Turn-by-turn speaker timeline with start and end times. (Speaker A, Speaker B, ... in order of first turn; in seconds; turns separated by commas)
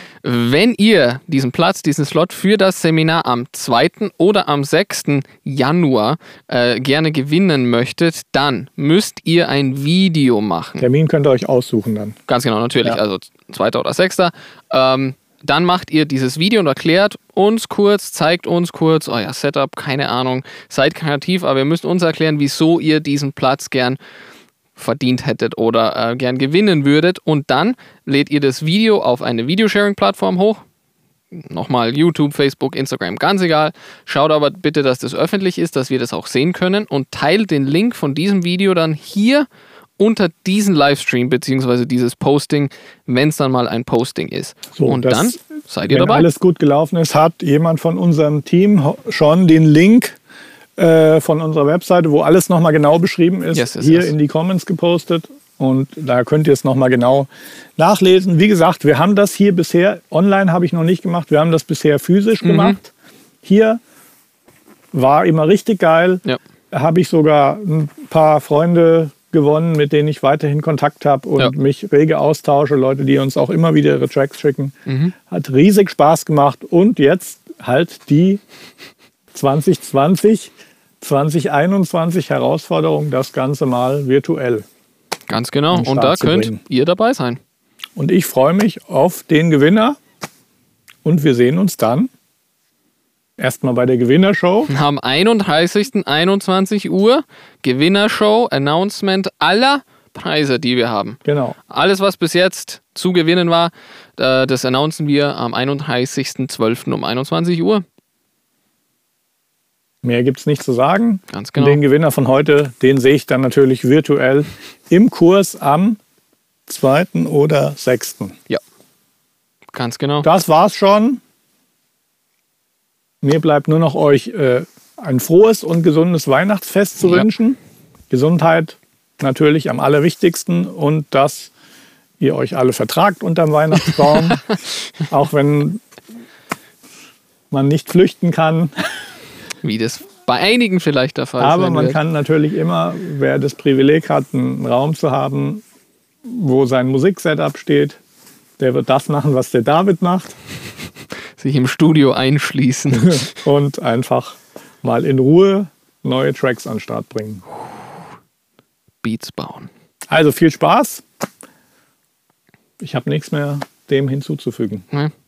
Speaker A: 0.2-10.9, Speaker B: 10.8-12.2, Speaker A: 12.3-24.0, Speaker A: 24.8-30.6, Speaker A: 31.3-39.5, Speaker A: 40.0-46.3, Speaker B: 44.7-50.2, Speaker B: 50.8-62.9, Speaker A: 53.5-54.1, Speaker A: 62.4-62.8, Speaker B: 63.4-63.8, Speaker B: 64.9-74.7, Speaker A: 74.9-75.1, Speaker B: 75.3-78.4, Speaker B: 79.3-84.6, Speaker A: 85.3-87.4, Speaker B: 85.7-86.6, Speaker B: 88.0-90.0, Speaker B: 91.0-92.1, Speaker B: 93.4-94.7, Speaker A: 94.7-107.8, Speaker B: 101.2-101.5, Speaker B: 110.0-116.0, Speaker A: 111.3-111.8, Speaker B: 116.7-118.3, Speaker A: 119.7-120.3, Speaker B: 120.2-121.2, Speaker B: 123.2-127.6, Speaker A: 127.0-127.3, Speaker B: 128.1-131.5, Speaker B: 132.2-134.4, Speaker B: 135.1-135.8, Speaker B: 137.5-138.7, Speaker A: 139.6-142.0, Speaker B: 141.4-145.6, Speaker B: 146.2-148.0, Speaker B: 148.6-150.4, Speaker A: 151.4-153.3, Speaker B: 152.9-157.4, Speaker A: 159.0-159.7, Speaker B: 160.1-161.0, Speaker B: 162.8-164.8